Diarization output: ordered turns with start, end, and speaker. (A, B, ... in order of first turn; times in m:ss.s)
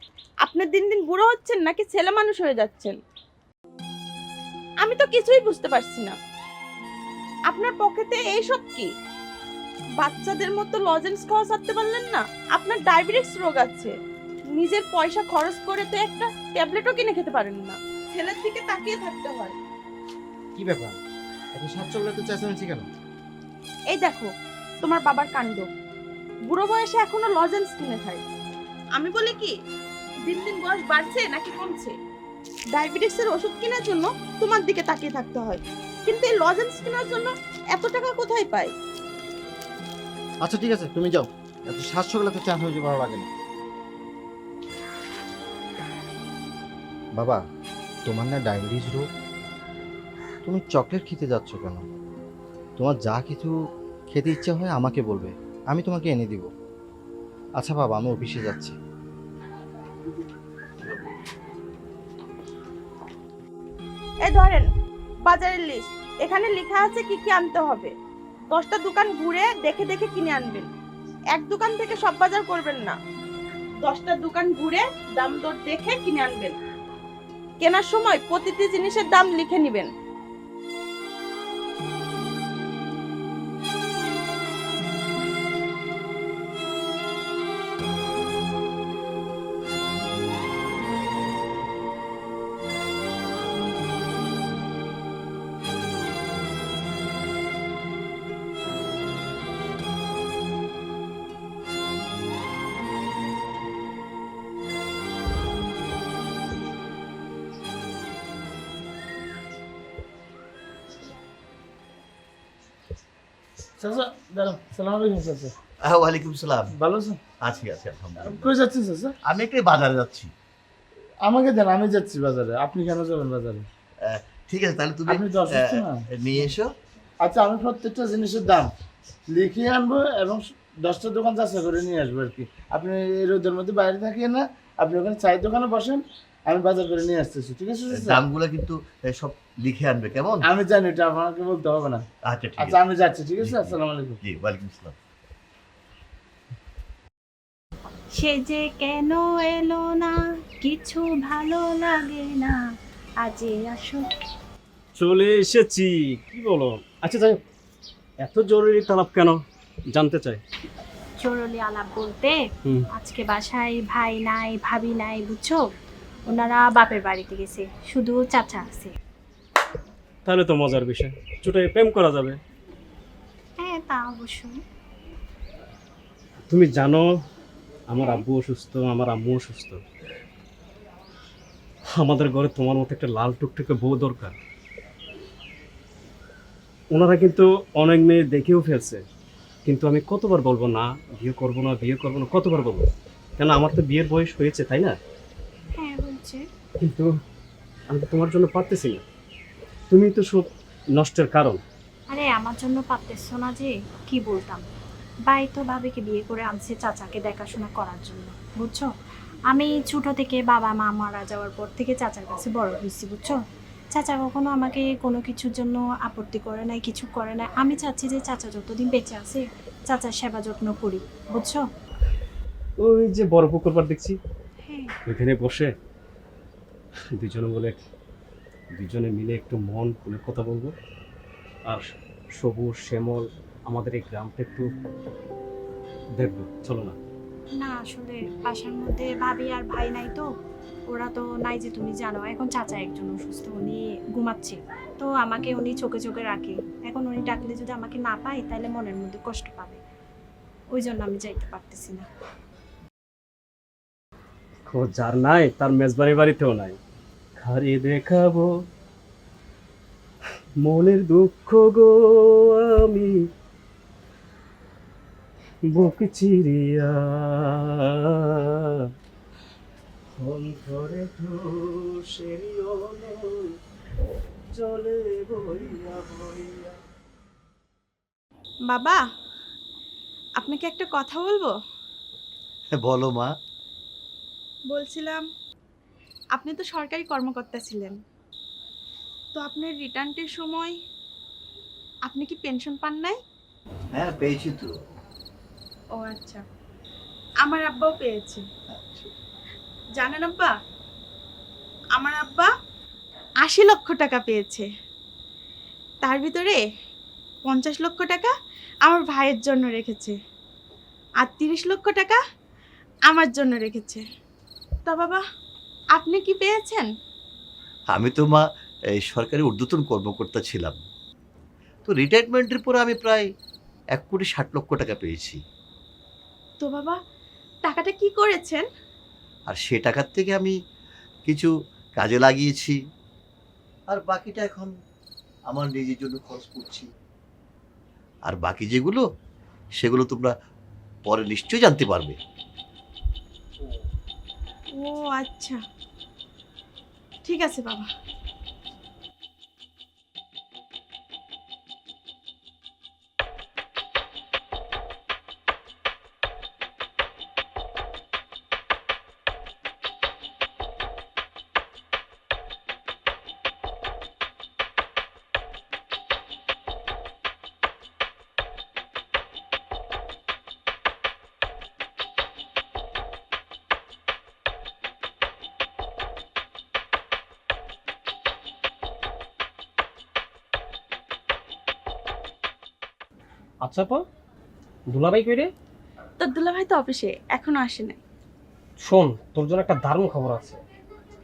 0:00.4-0:03.0 A
0:04.8-0:06.1 A
0:07.5-0:08.9 A
0:10.0-0:13.9 A
0:14.5-0:19.6 A
0:20.6-0:21.0 B
0:21.6-0:22.9 B
0:23.9-0:24.3 A
0:24.8-0:25.7 A
0:26.5-0:28.2 A
0:29.0-0:29.5 A
0:30.3-0:31.9 A
0:32.7-0:38.7 A
0:40.4-0:43.3 B
0:48.1-0:49.0 B
0:50.4-0:51.8 B
0:52.8-0:53.5 B
0:54.1-0:56.5 B
0:57.6-0:58.7 B
1:04.2-1:04.7 A
1:05.3-1:07.9 A
1:08.5-1:10.7 A
1:11.3-1:13.0 A
1:13.8-1:16.6 A
1:17.6-1:19.9 A
1:53.8-1:55.5 C
1:55.8-1:56.8 D
1:56.8-1:57.2 C
1:57.4-1:58.6 D
1:58.2-1:59.1 C
1:59.2-2:00.3 D
2:01.2-2:03.6 C
2:04.0-2:06.7 D
2:05.1-2:06.0 C
2:07.2-2:08.7 C
2:09.3-2:18.2 C
2:17.9-2:20.5 D
2:20.5-2:22.0 C
2:22.2-2:25.0 D
2:22.6-2:24.2 C
2:28.2-2:32.6 E
2:33.2-2:34.0 E
2:35.0-2:37.4 F
2:38.2-2:40.4 F
2:41.2-2:42.4 E
2:42.9-2:45.6 E
2:46.3-2:48.9 E
2:50.2-2:52.4 F
2:53.6-2:54.6 E
2:56.5-2:57.0 F
2:57.9-2:59.8 F
3:02.0-3:04.3 F
3:06.9-3:09.0 F
3:09.6-3:15.0 F
3:15.8-3:16.4 E
3:16.8-3:17.1 F
3:17.9-3:19.0 F
3:19.9-3:21.6 F
3:22.1-3:24.6 E
3:25.3-3:28.9 E
3:29.5-3:33.4 E
3:33.9-3:41.6 E
3:42.8-3:44.2 F
3:44.6-3:44.9 E
3:45.0-3:45.7 F
3:47.1-3:47.8 F
3:48.7-3:50.7 F
3:51.7-3:54.7 F
3:56.2-3:57.0 F
3:57.6-4:00.2 E
4:00.9-4:09.8 E
4:10.7-4:12.1 E
4:14.7-4:16.8 F
4:17.4-4:18.5 F
4:20.6-4:23.2 F
4:25.7-4:27.9 F
4:30.2-4:33.3 F
4:34.5-4:36.7 F
4:38.7-4:39.0 A
4:40.4-4:41.5 A
4:42.8-4:43.3 D
4:44.7-4:45.2 A
4:46.4-4:47.9 A
4:49.3-4:50.7 A
4:52.1-4:53.2 A
4:53.9-4:54.7 D
4:56.0-4:56.4 A
4:57.4-4:58.4 A
4:58.7-4:59.1 D
5:00.0-5:00.5 A
5:01.9-5:02.5 A
5:03.4-5:04.6 A
5:06.0-5:06.6 A
5:07.4-5:08.3 A
5:08.8-5:10.1 A
5:11.2-5:12.2 A
5:13.1-5:14.0 A
5:14.8-5:15.2 A
5:16.0-5:16.8 A
5:17.9-5:18.4 D
5:19.0-5:20.8 D
5:21.9-5:23.2 D
5:24.0-5:25.4 D
5:26.6-5:26.9 A
5:27.6-5:28.6 A
5:29.5-5:30.5 D
5:31.3-5:32.8 D
5:33.9-5:34.7 D
5:35.5-5:36.9 D
5:38.3-5:39.0 D
5:39.8-5:40.3 D
5:41.0-5:42.2 D
5:44.8-5:45.6 A
5:47.2-5:47.8 A
6:23.6-6:24.0 G
6:24.9-6:25.5 G
6:26.2-6:28.0 A
6:28.8-6:30.6 G